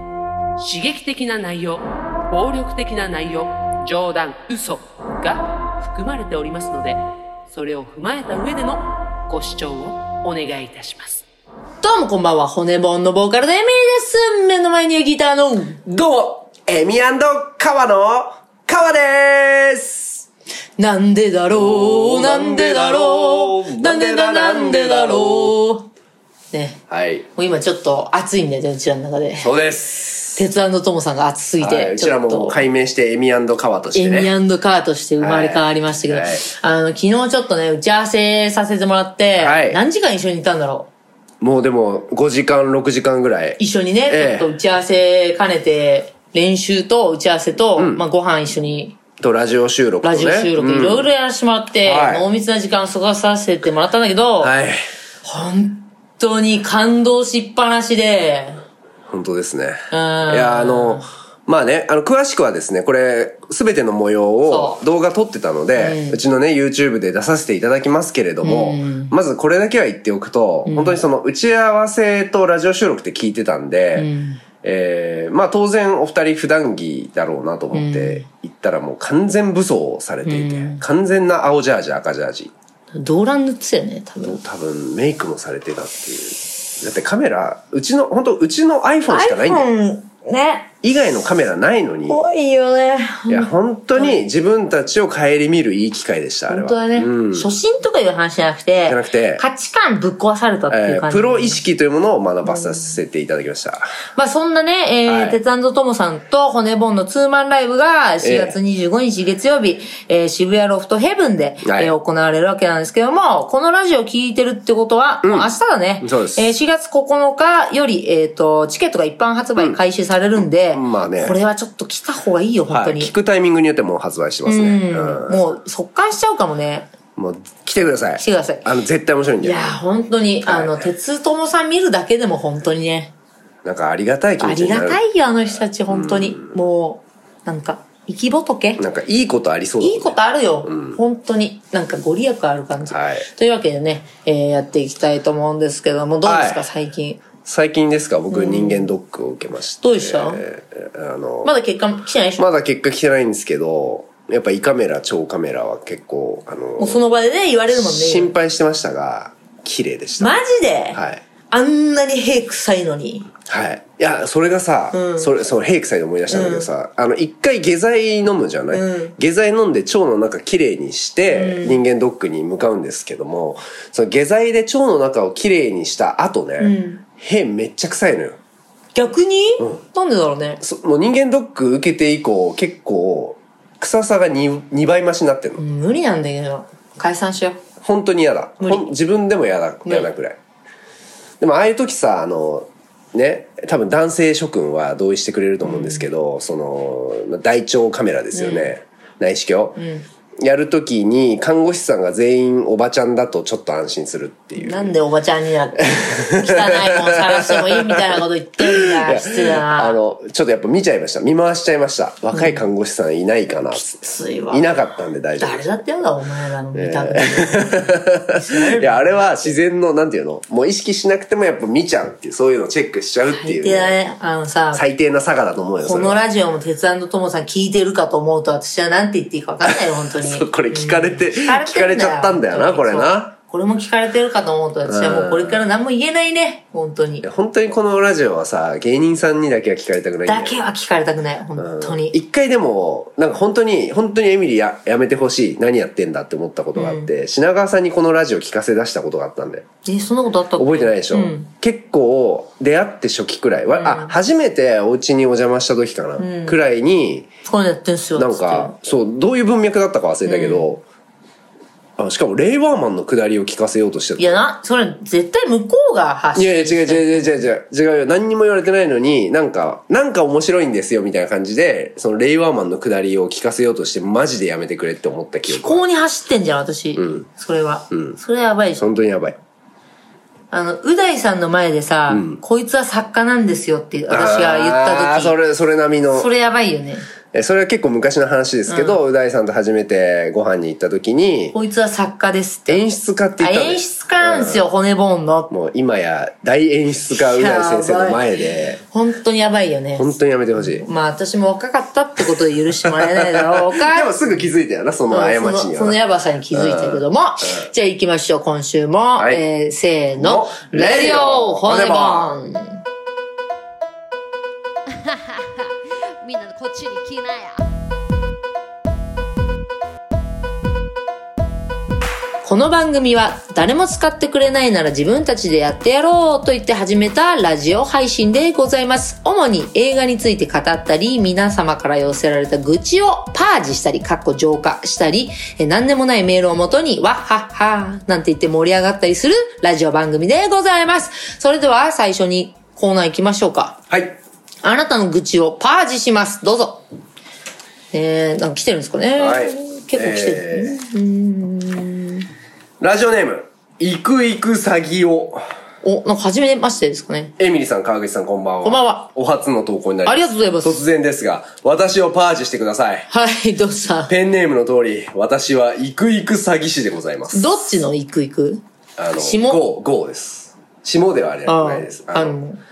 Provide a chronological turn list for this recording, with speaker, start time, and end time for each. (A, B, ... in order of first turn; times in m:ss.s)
0:00.6-0:07.0 A
0:07.5-0:11.2 A
0:11.8-0:15.8 B
0:15.8-0:20.2 C
0:20.8-0:25.9 B
0:21.5-0:25.6 C
0:26.5-0:26.8 B
0:26.9-0:27.2 C
0:27.4-0:29.5 B
0:29.4-0:30.4 C
0:30.4-0:32.6 B
0:31.6-0:34.3 C
0:33.9-0:40.9 B
0:35.2-0:36.4 C
0:39.4-0:39.8 C
0:41.4-0:44.5 C
0:43.6-0:49.0 B
0:47.8-0:48.0 C
0:49.2-0:51.1 C
0:50.0-0:54.5 B
0:51.8-0:52.2 C
0:54.4-0:54.8 C
0:55.2-0:58.6 B
0:59.1-1:14.1 C
0:59.9-1:01.1 B
1:04.4-1:04.8 B
1:05.7-1:06.2 B
1:08.4-1:09.1 B
1:10.6-1:11.0 B
1:13.9-1:14.4 B
1:14.6-1:22.5 C
1:17.7-1:18.2 B
1:20.2-1:20.8 B
1:22.9-1:24.4 B
1:24.2-1:29.6 C
1:29.1-1:30.7 B
1:30.8-1:32.2 C
1:32.1-1:34.2 B
1:33.3-1:37.5 C
1:36.5-1:41.6 B
1:38.8-1:39.4 C
1:40.7-1:43.9 C
1:42.4-1:43.0 B
1:44.2-2:03.1 B
1:45.0-1:45.4 C
1:48.2-1:48.6 C
1:51.6-1:51.9 C
1:55.2-1:55.5 C
1:56.0-1:56.5 C
2:00.7-2:01.4 C
2:02.7-2:05.4 C
2:04.4-2:06.9 B
2:07.2-2:09.8 C
2:08.2-2:08.6 B
2:09.4-2:13.1 B
2:10.4-2:10.8 C
2:13.6-2:15.0 C
2:14.4-2:18.8 B
2:15.9-2:16.5 C
2:18.8-2:20.1 C
2:19.8-2:27.2 B
2:20.6-2:21.0 C
2:22.9-2:23.2 C
2:26.2-2:26.6 C
2:27.4-2:31.5 C
2:28.3-2:28.9 B
2:29.8-2:30.4 B
2:31.4-2:32.4 B
2:32.4-2:37.0 C
2:36.8-2:38.3 B
2:37.8-2:40.3 C
2:40.2-2:41.0 B
2:40.9-2:41.2 C
2:41.5-2:43.3 B
2:43.5-2:58.4 C
2:44.9-2:45.3 B
2:46.3-2:46.7 B
2:48.7-2:49.1 B
2:51.3-2:51.8 B
2:56.6-2:57.0 B
2:58.9-3:00.6 B
3:00.6-3:05.6 C
3:05.6-3:07.6 B
3:07.8-3:10.4 C
3:08.6-3:08.9 B
3:11.4-3:19.8 C
3:15.6-3:16.0 B
3:18.3-3:18.7 B
3:19.8-3:20.0 B
3:20.4-3:24.9 C
3:24.6-3:30.0 B
3:25.8-3:35.6 C
3:32.3-3:32.6 B
3:33.8-3:34.7 B
3:35.4-3:39.6 B
3:36.7-3:43.9 C
3:43.3-3:44.8 B
3:44.7-3:46.2 C
3:45.8-3:57.2 B
3:49.6-3:53.3 C
3:54.8-3:55.6 C
3:57.2-4:00.6 C
4:00.2-4:02.2 B
4:01.6-4:09.6 C
4:06.7-4:07.1 B
4:09.8-4:11.5 B
4:10.6-4:17.3 C
4:13.7-4:14.1 B
4:16.2-4:16.6 B
4:17.4-4:18.7 B
4:18.2-4:20.8 C
4:20.2-4:20.7 B
4:22.0-4:24.4 C
4:24.2-4:27.5 B
4:26.3-4:35.8 C
4:35.5-4:38.8 B
4:37.0-4:37.2 C
4:37.9-4:38.2 C
4:38.8-4:39.4 C
4:40.5-4:45.3 B
4:42.1-4:42.4 C
4:44.1-4:46.3 C
4:46.1-4:47.0 B
4:47.3-4:51.5 C
4:48.7-4:49.0 B
4:51.5-4:52.8 B
4:52.7-4:54.6 C
4:53.4-4:55.5 B
4:55.5-4:58.8 C
4:57.1-5:04.3 B
5:00.0-5:00.8 C
5:02.8-5:06.0 C
5:05.1-5:12.8 B
5:06.5-5:07.7 C
5:09.2-5:09.4 C
5:10.2-5:12.3 C
5:15.0-5:15.7 D
5:16.2-5:17.6 D
5:22.4-5:43.8 B
5:43.9-5:44.2 C
5:44.6-5:46.8 B
5:47.9-5:52.3 B
5:49.2-5:50.8 C
5:52.8-5:55.4 C
5:55.8-5:57.3 B
5:57.4-6:03.1 C
5:58.6-5:59.1 B
6:00.0-6:00.8 B
6:03.1-6:04.1 B
6:04.1-6:07.6 C
6:07.3-6:08.6 B
6:09.0-6:12.4 C
6:09.2-6:09.6 B
6:11.4-6:12.6 B